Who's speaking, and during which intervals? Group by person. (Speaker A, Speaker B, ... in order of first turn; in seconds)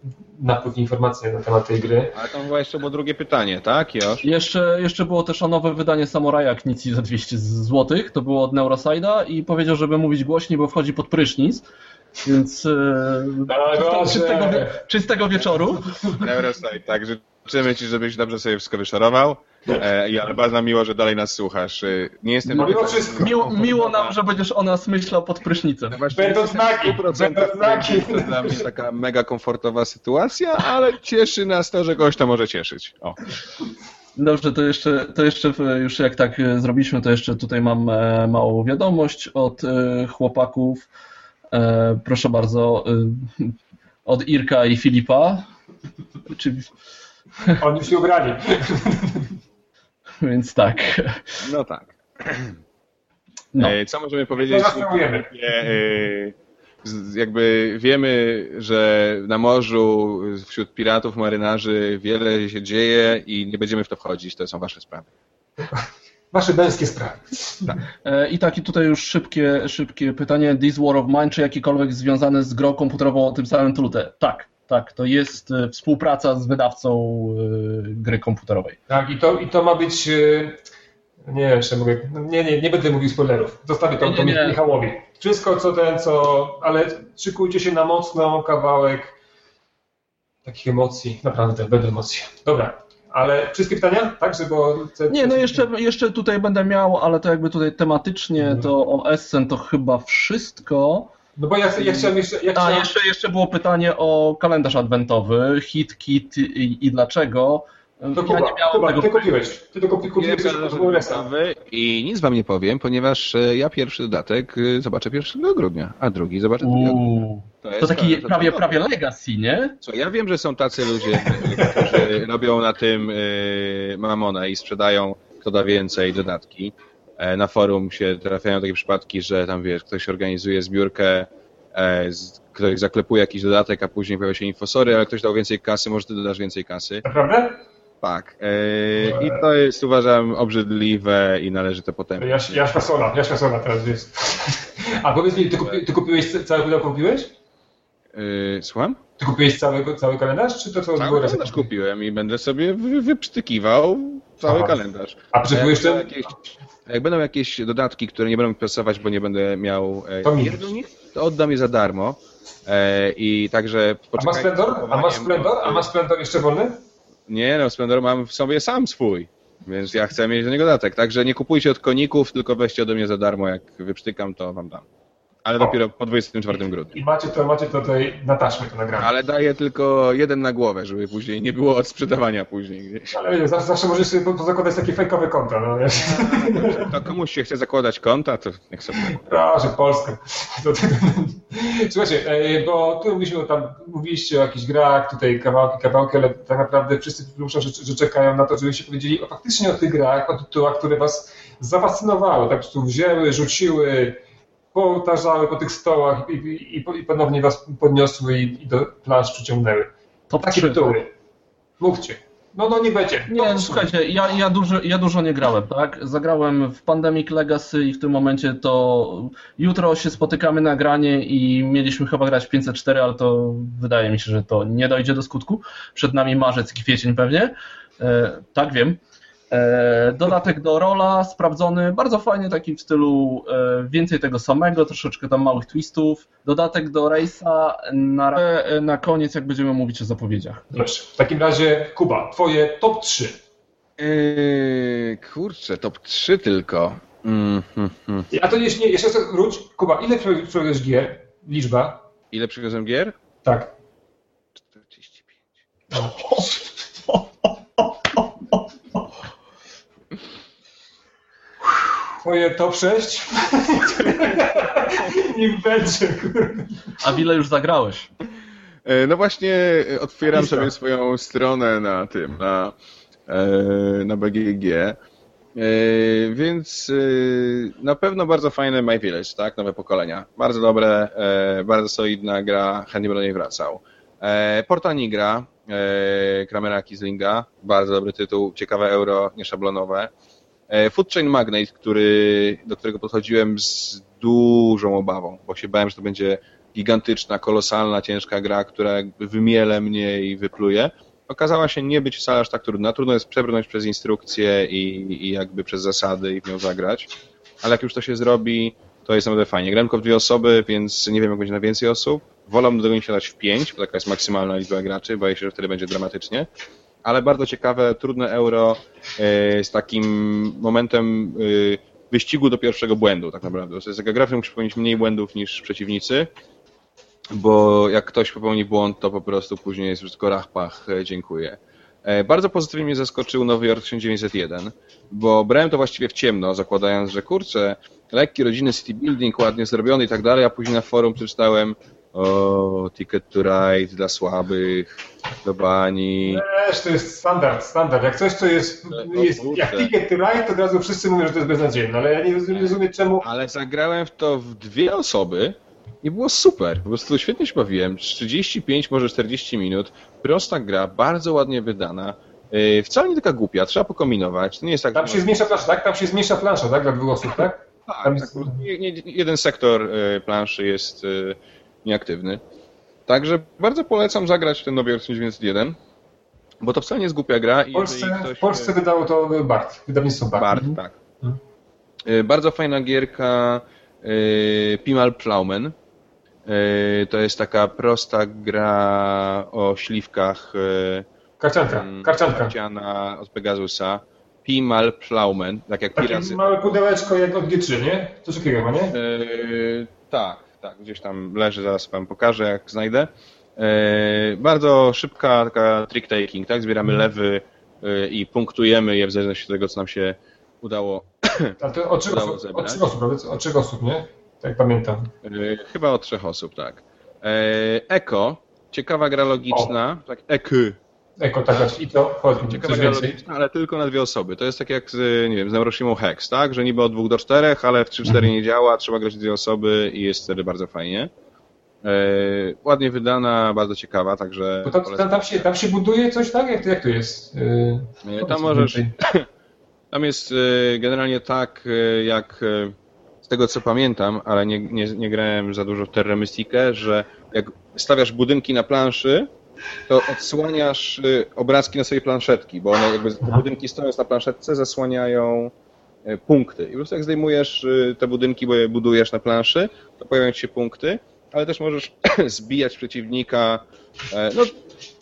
Speaker A: 0.4-2.1, 13.5-14.8, 22.6-23.4, 26.1-28.6, 47.6-49.3, 54.4-55.3, 66.3-67.6, 78.9-80.6, 81.3-89.1, 90.5-95.7, 98.4-98.7, 101.4-102.9, 108.1-111.3, 121.5-121.8, 137.0-137.6, 139.0-139.4, 142.2-147.3, 149.2-151.7, 154.4-154.8, 155.3-156.1, 160.2-160.7, 164.2-166.8, 176.9-179.1, 183.1-186.9, 189.0-204.2, 204.7-209.9, 210.4-211.1, 211.8-213.9, 240.7-243.4, 248.3-252.0, 253.4-253.7, 262.2-266.7, 270.3-270.7, 346.2-353.2, 364.9-368.6, 377.7-380.5, 391.4-392.5, 395.9-398.9, 411.6-415.1, 421.2-423.2, 434.6-438.9
Speaker B: 2.1-4.2, 16.1-24.2, 25.9-33.2, 51.4-52.6, 53.6-65.1, 110.1-117.0, 117.6-118.8, 119.8-137.0, 138.0-142.6, 148.1-149.0, 151.0-165.9, 167.3-174.8, 175.4-176.9, 179.0-183.1, 185.9-189.2, 244.0-248.3, 252.3-253.2, 254.6-255.4, 268.8-272.8, 273.3-275.0, 275.5-290.1, 290.7-307.1, 307.6-316.5, 317.0-326.3, 327.3-346.4, 348.9-349.9, 352.5-365.5, 367.9-372.4, 373.1-375.8, 376.6-378.7, 380.3-381.0, 382.0-385.7, 386.4-391.1, 391.7-396.7, 398.9-412.8, 415.2-420.8, 422.4-431.1, 431.8-435.5, 438.0-439.3, 439.9-449.3, 449.9-455.5, 456.0-464.6
Speaker C: 4.2-11.6, 12.2-15.9, 22.5-26.0, 34.1-40.9, 41.5-45.5, 46.3-46.7, 50.2-51.4, 68.0-78.8, 84.0-84.6, 95.1-101.1, 101.8-109.3, 116.6-119.8, 210.3-211.0, 213.3-229.0, 229.5-240.7, 255.9-256.5, 258.1-258.6, 267.0-268.1